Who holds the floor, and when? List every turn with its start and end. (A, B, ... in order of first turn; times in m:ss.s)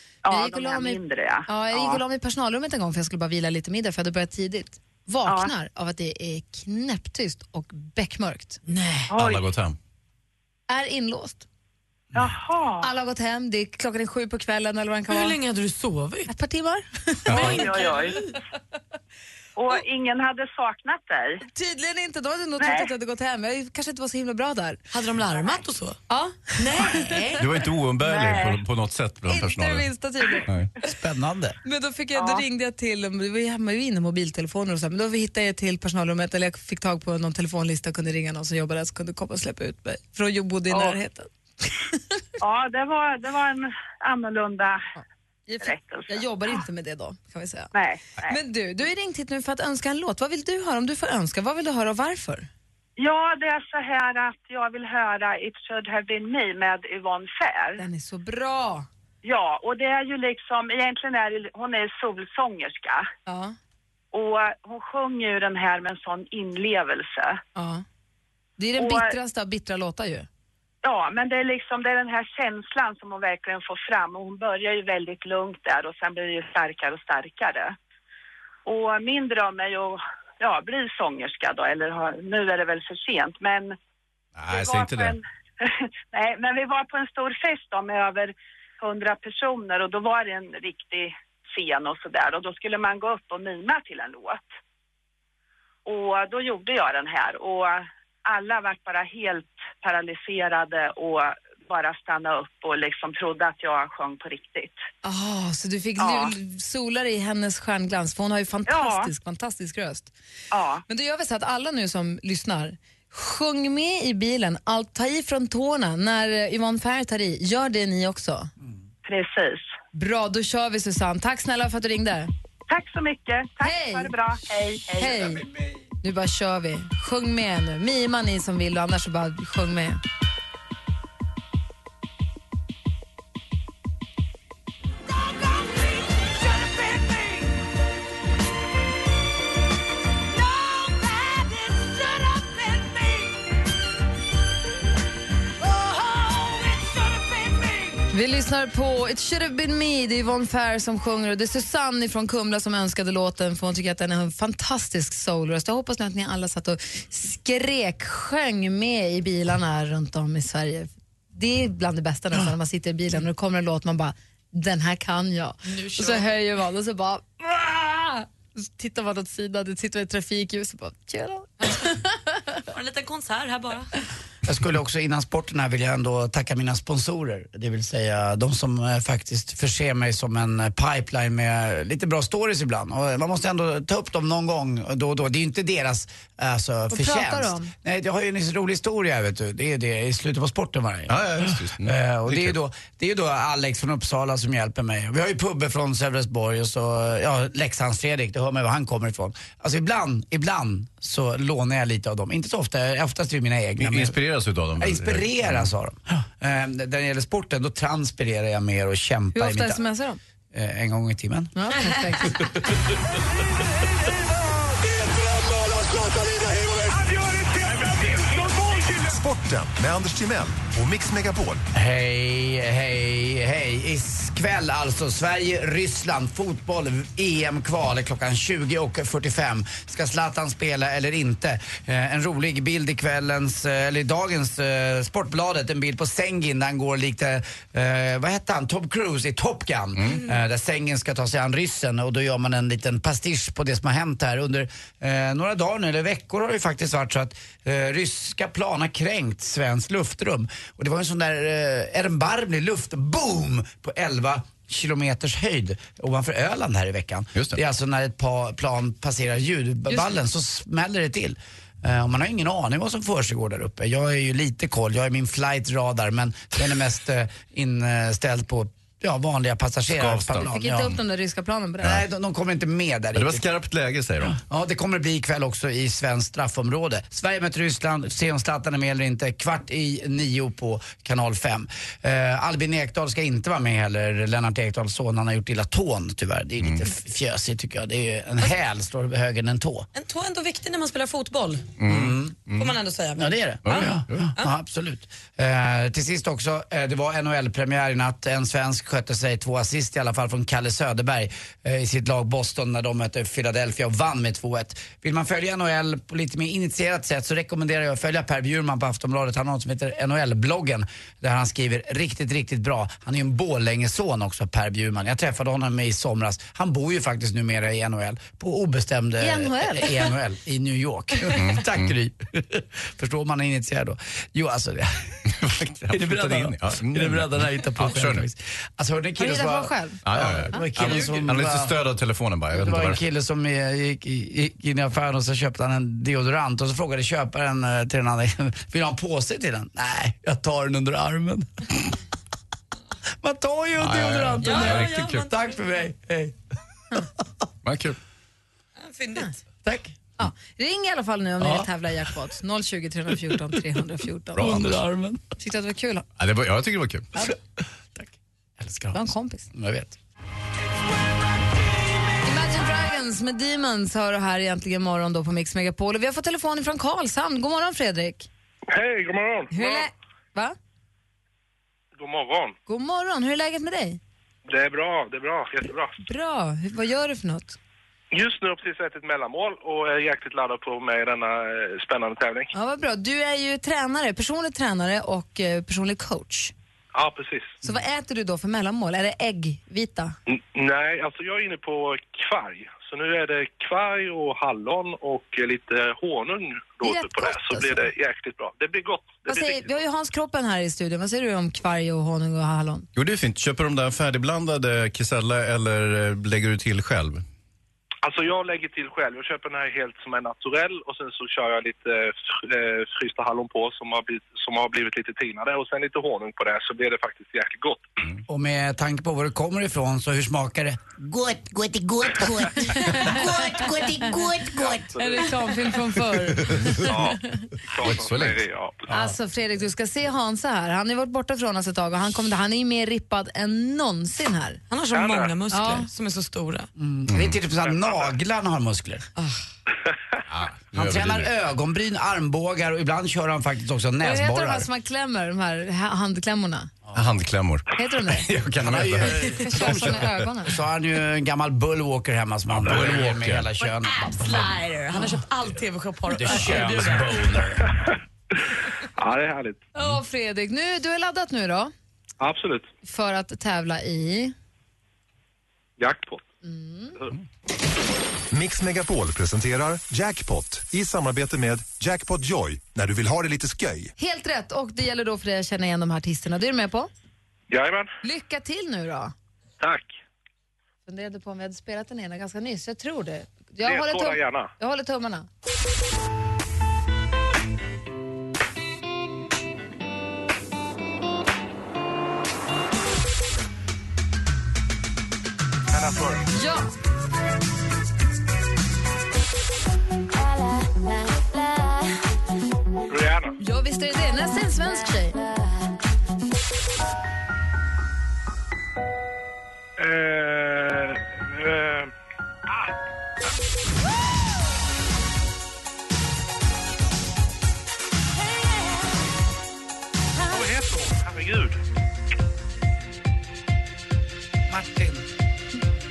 0:00.2-0:02.0 A
0:00.3-0:09.0 B
0:09.1-0:09.8 C
0:09.1-0:09.4 A
0:10.7-0:11.4 B
0:12.2-0:12.9 A
0:12.8-0:15.4 B
0:15.1-0:16.3 D
0:16.3-0:17.8 B
0:17.3-0:17.6 C
0:17.3-0:18.4 D
0:17.4-0:18.2 A
0:19.6-0:21.4 A
0:21.5-0:24.8 B
0:22.6-0:22.9 A
0:24.9-0:26.0 D
0:26.1-0:27.3 B
0:26.6-0:27.5 D
0:27.4-0:29.9 C
0:28.0-0:28.6 A
0:29.3-0:30.5 B
0:30.8-0:31.6 E
0:31.6-0:42.0 B
0:32.2-0:32.4 A
0:40.7-0:41.0 A
0:42.4-0:44.8 A
0:45.0-0:47.7 B
0:45.6-0:46.6 A
0:47.7-0:48.4 A
0:48.3-0:52.5 B
0:53.0-0:57.8 A
0:57.8-0:58.9 B
0:59.2-1:03.1 A
1:03.3-1:03.6 B
1:04.1-1:07.4 A
1:07.6-1:07.8 B
1:08.6-1:10.3 B
1:08.8-1:09.1 A
1:10.8-1:17.8 A
1:18.6-1:23.8 A
1:24.4-1:25.2 C
1:24.5-1:34.5 A
1:35.8-1:44.8 A
1:45.0-1:50.1 B
1:46.0-1:46.3 A
1:48.7-1:49.1 A
1:50.5-1:50.8 A
1:50.9-1:58.5 B
1:59.0-1:59.7 A
1:59.9-2:02.3 B
2:02.7-2:05.4 A
2:03.6-2:04.2 B
2:05.0-2:05.5 B
2:06.0-2:10.0 B
2:28.1-2:52.5 B
2:45.6-2:46.3 D
2:52.7-2:53.9 D
2:54.4-3:24.2 E
3:06.9-3:07.7 B
3:11.1-3:12.6 C
3:23.8-3:25.7 C
3:24.8-3:29.8 E
3:29.4-3:30.2 B
3:30.5-3:31.5 E
3:31.6-3:32.4 B
3:38.9-3:41.7 F
3:41.7-4:31.0 E
4:30.0-4:30.5 C
4:30.3-4:32.0 B
4:31.8-4:33.4 E
4:33.1-4:34.4 C
4:34.2-4:49.9 E
4:50.0-4:51.7 D
4:51.8-4:52.7 C
4:51.9-4:52.4 E
4:52.6-4:53.9 D
4:53.2-5:25.2 E
4:53.7-4:54.3 C
5:19.2-5:20.1 B
5:21.3-5:21.9 C
5:25.3-5:28.3 C
5:25.9-5:31.8 E
5:29.2-5:30.0 B
5:30.0-5:33.0 C
5:32.5-5:41.7 E
5:43.2-5:46.4 E
5:43.8-5:45.3 C
5:44.4-5:45.6 D
5:47.6-5:48.0 C
5:48.8-5:49.3 D
5:49.7-5:50.0 E
5:50.2-5:54.6 B
5:54.4-5:54.8 C
5:54.4-5:55.2 E
5:55.4-5:56.1 B
5:56.2-5:57.1 C
5:58.0-5:59.0 E
5:58.9-5:59.5 B
5:59.5-6:00.0 E
6:02.2-6:08.3 B
6:08.7-6:09.9 G
6:09.5-6:10.6 B
6:12.0-6:12.6 G
6:12.7-6:14.0 B
6:14.5-6:15.9 G
6:16.0-6:17.6 B
6:18.1-6:22.5 G
6:22.5-6:26.5 B
6:26.9-6:27.6 G
6:27.6-6:30.2 B
6:30.3-6:39.8 G
6:36.8-6:37.8 B
6:39.3-6:42.9 B
6:43.0-6:47.2 C
6:48.0-6:57.9 G
6:58.3-7:00.9 E
7:01.0-7:05.0 H
7:04.6-7:05.3 G
7:05.0-7:07.4 B
7:06.8-7:07.2 G
7:07.7-7:08.9 G
7:07.8-7:08.4 C
7:08.9-7:14.6 B
7:14.7-7:16.7 D
7:14.9-7:15.3 G
7:15.5-7:15.9 B
7:16.8-7:19.0 E
7:17.1-7:17.4 C
7:17.6-7:18.1 G
7:19.2-7:19.4 D
7:20.3-7:21.3 C
7:20.7-7:24.7 E
7:24.0-7:26.7 B
7:26.9-7:30.2 C
7:27.7-7:28.3 B
7:28.6-7:34.5 E
7:29.2-7:30.5 B
7:32.5-7:33.5 C
7:33.7-7:37.3 D
7:36.1-7:37.7 E
7:39.0-7:39.7 G
7:39.8-7:41.7 B
7:42.2-7:42.7 G
7:42.8-7:44.3 B
7:45.8-7:46.2 G
7:46.4-7:47.0 B
7:48.3-7:53.9 F
7:54.0-7:56.9 B
7:57.5-7:57.9 G
7:58.0-7:59.1 B
7:59.6-8:00.0 G
8:00.9-8:05.3 B
8:03.6-8:04.5 G
8:15.7-8:16.3 G
8:16.3-8:16.7 B
8:22.9-8:23.4 G
8:23.4-8:25.2 B
8:29.8-8:31.9 G
8:40.3-8:41.6 G
8:44.5-8:45.1 E